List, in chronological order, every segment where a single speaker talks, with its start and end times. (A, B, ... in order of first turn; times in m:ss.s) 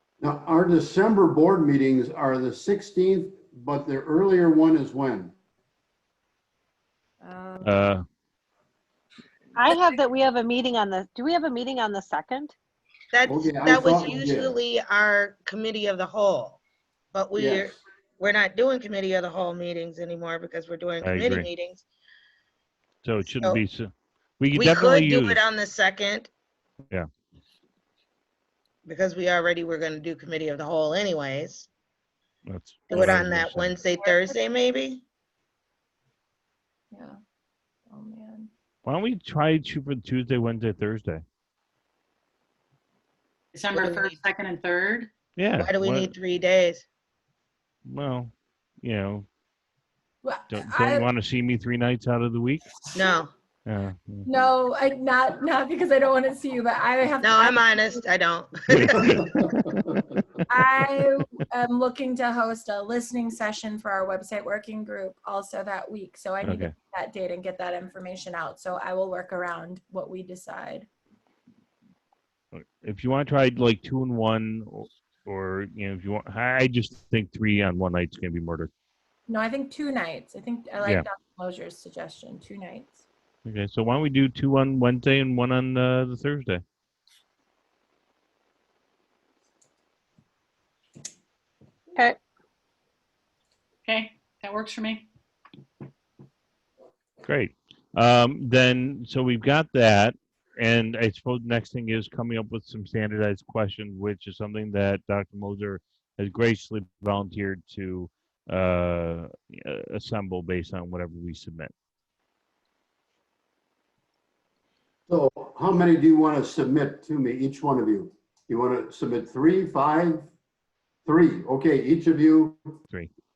0:00.2-0:05.3 A
0:07.2-0:07.8 B
0:07.6-0:08.0 C
0:09.6-0:12.5 D
0:13.1-0:16.6 E
0:13.3-0:14.6 A
0:17.1-0:21.8 E
0:17.4-0:17.8 A
0:21.0-0:21.5 C
0:23.0-0:25.5 C
0:24.6-0:26.3 E
0:28.8-0:31.7 E
0:32.5-0:33.8 C
0:32.9-0:35.0 E
0:32.9-0:33.2 B
0:33.9-0:34.4 B
0:36.9-0:37.2 B
0:37.9-0:38.5 B
0:38.8-0:41.2 C
0:43.5-0:45.1 F
0:43.7-0:44.2 E
0:45.4-0:46.1 C
0:45.6-0:46.8 E
0:47.9-0:49.2 C
0:50.2-0:51.1 B
0:50.5-0:52.8 C
0:52.9-0:53.3 E
0:53.7-0:54.3 C
0:54.2-0:58.0 B
0:57.2-0:59.0 E
0:58.7-0:59.3 C
1:00.5-1:10.9 B
1:06.4-1:06.7 C
1:12.5-1:18.7 C
1:19.3-1:23.0 B
1:23.5-1:26.6 C
1:33.9-1:35.0 F
1:37.2-1:51.7 C
1:55.1-2:00.3 A
2:01.1-2:02.7 A